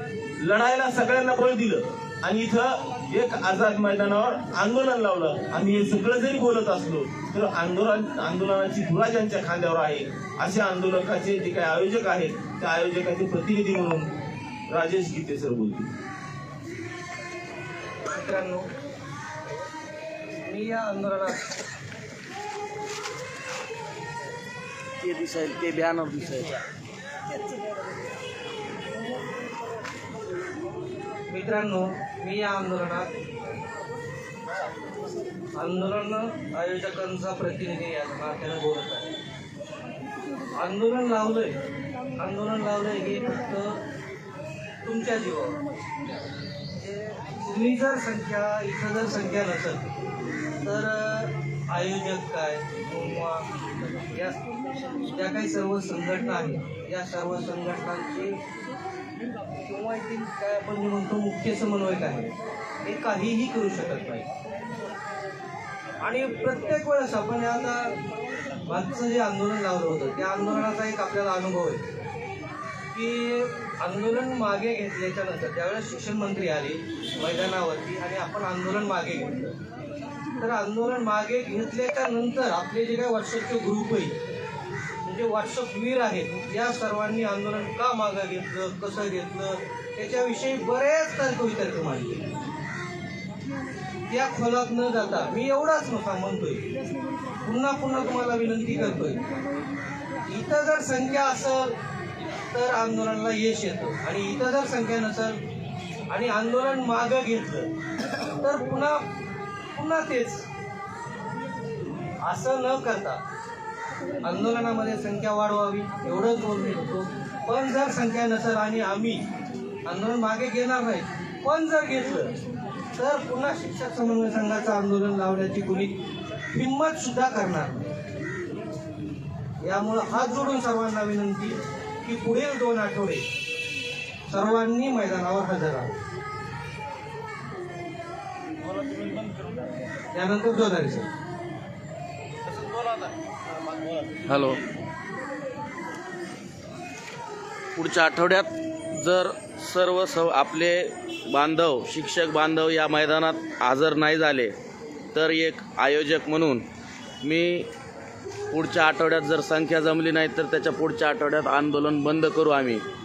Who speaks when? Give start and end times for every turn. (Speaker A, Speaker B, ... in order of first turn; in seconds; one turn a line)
Speaker A: 0.4-14.2
Speaker A: 14.7-15.9
Speaker B: 18.1-18.7
Speaker B: 20.4-21.4
Speaker C: 25.0-26.6
Speaker B: 31.3-33.1
Speaker B: 35.6-39.1
Speaker B: 40.5-41.6
Speaker B: 42.2-43.8
Speaker B: 44.8-45.6
Speaker B: 46.8-49.9
Speaker B: 50.6-54.4
Speaker B: 55.0-58.4
Speaker B: 59.6-62.3
Speaker B: 62.8-64.3
Speaker B: 66.0-68.0
Speaker B: 68.7-71.8
Speaker B: 72.9-79.5
Speaker B: 80.4-84.2
Speaker B: 85.0-92.3
Speaker B: 94.1-96.6
Speaker B: 97.4-99.2
Speaker B: 100.3-101.8
Speaker B: 102.5-105.4
Speaker B: 106.1-107.7
Speaker B: 108.4-109.0
Speaker B: 109.7-110.5
Speaker B: 112.2-113.2
Speaker B: 114.2-119.2
Speaker B: 119.9-122.3
Speaker B: 123.0-126.0
Speaker B: 126.5-127.9
Speaker B: 129.6-133.2
Speaker B: 134.3-136.0
Speaker A: 138.6-139.6
Speaker B: 140.1-141.1
Speaker A: 142.5-143.1
Speaker A: 143.7-144.3
Speaker C: 144.3-144.6
Speaker C: 147.8-154.6
Speaker C: 155.1-156.7
Speaker C: 157.2-157.7
Speaker C: 158.5-162.8